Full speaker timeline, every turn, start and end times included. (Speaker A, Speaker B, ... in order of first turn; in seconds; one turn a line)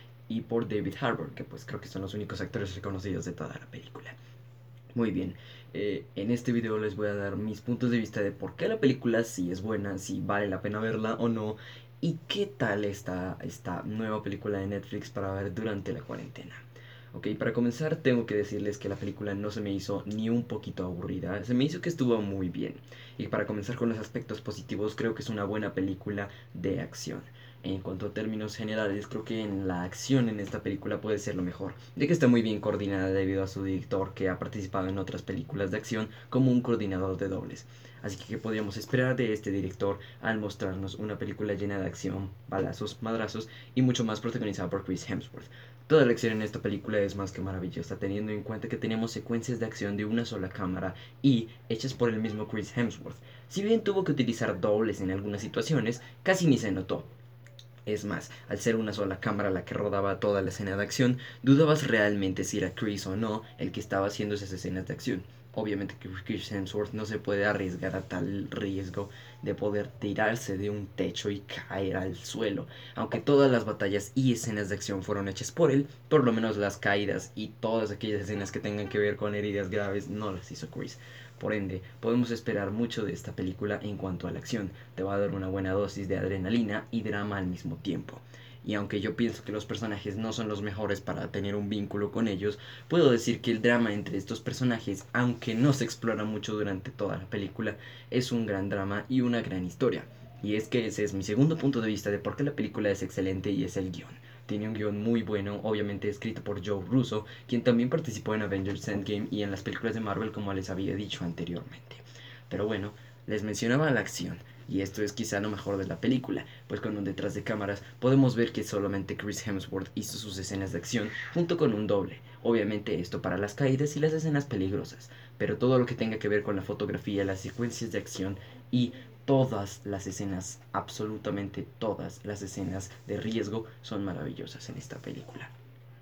Speaker A: 0.3-4.2
Speaker A: 5.0-57.1
Speaker A: 57.9-135.5